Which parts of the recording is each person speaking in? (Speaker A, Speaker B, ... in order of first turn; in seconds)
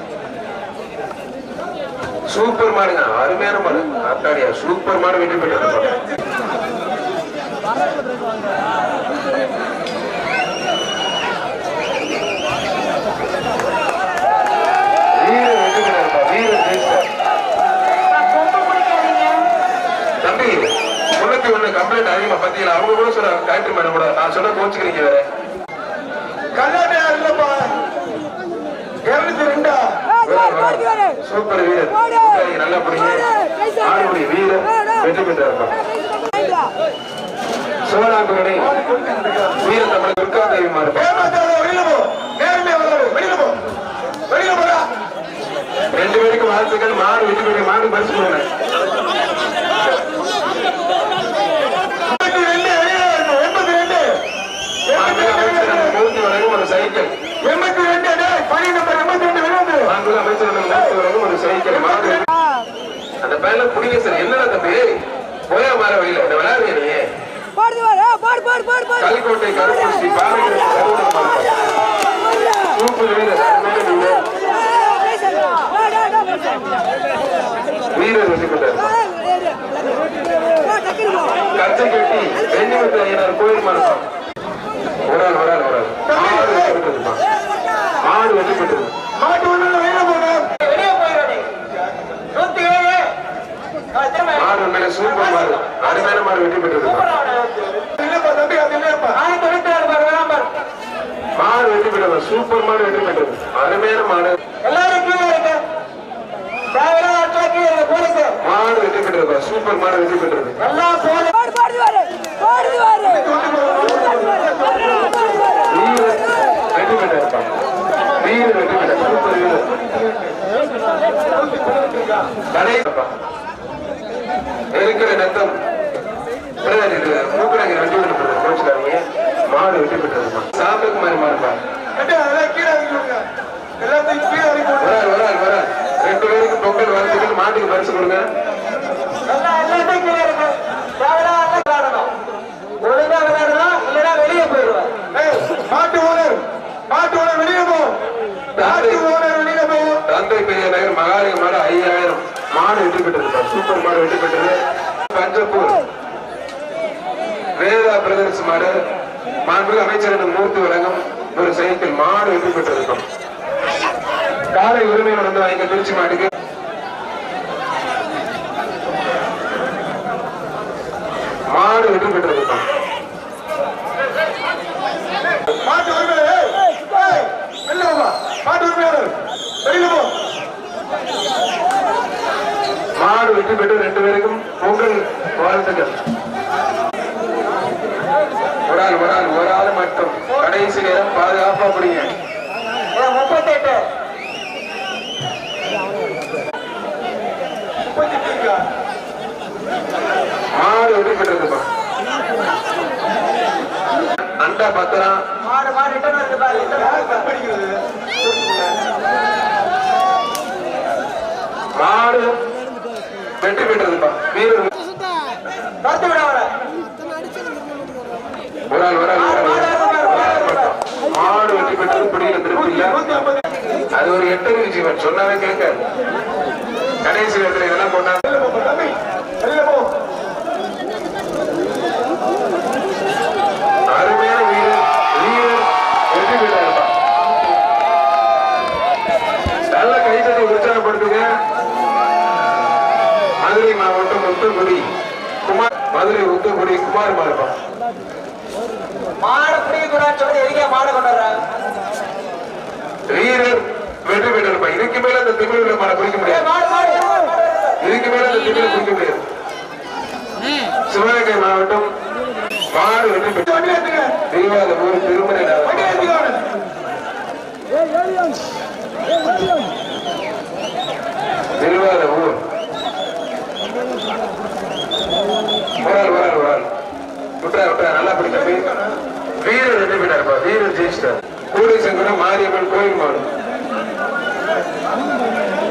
Speaker A: 2.3-5.9, 15.2-17.1, 20.2-25.2, 30.2-33.2, 33.8-35.8, 37.9-38.7, 39.6-41.1, 45.9-48.5, 54.9-57.1, 59.9-62.3, 63.2-67.1, 69.0-71.7, 72.7-74.2, 77.9-79.0, 81.5-84.0, 85.1-87.2, 88.0-88.9, 94.3-97.1, 101.4-104.4, 108.4-110.6, 115.7-117.5, 118.2-119.6, 122.5-123.1, 124.7-125.5, 126.6-131.6, 134.8-138.2, 148.6-149.0, 150.1-154.6, 155.1-155.8, 157.6-158.8, 159.4-163.0, 164.5-166.3, 171.5-172.6, 183.0-186.0, 188.7-192.1, 200.6-201.7, 204.4-205.2, 211.8-212.3, 213.4-214.7, 218.7-222.9, 223.9-225.8, 227.0-228.2, 233.9-236.9, 239.7-241.3, 243.4-244.8, 245.4-247.5, 253.1-256.4, 257.8-259.2, 260.9-261.9, 262.7-263.5, 264.3-266.1, 271.6-272.4, 275.8-276.7, 277.4-278.7, 279.4-283.3
Speaker B: 18.1-19.4, 90.6-91.5, 92.3-93.1, 93.9-96.2, 96.8-97.9, 99.1-100.5, 104.6-105.6, 106.7-108.4, 110.6-111.5, 139.3-142.1, 142.8-144.9, 192.9-193.8, 205.4-207.3, 215.8-216.5, 219.2-220.7, 249.2-251.4, 256.2-257.8
Speaker C: 26.6-27.8, 29.1-30.0, 38.6-39.6, 40.9-43.6, 44.3-44.9, 52.0-54.2, 54.9-56.0, 57.4-59.9, 86.1-86.8, 89.2-90.5, 98.0-99.2, 113.0-115.5, 121.1-122.3, 132.0-133.3, 133.8-135.0, 145.1-147.9, 148.6-150.0, 175.5-180.1, 197.9-198.6, 206.8-207.8, 222.5-223.4, 228.2-229.9, 263.4-264.1, 265.6-266.4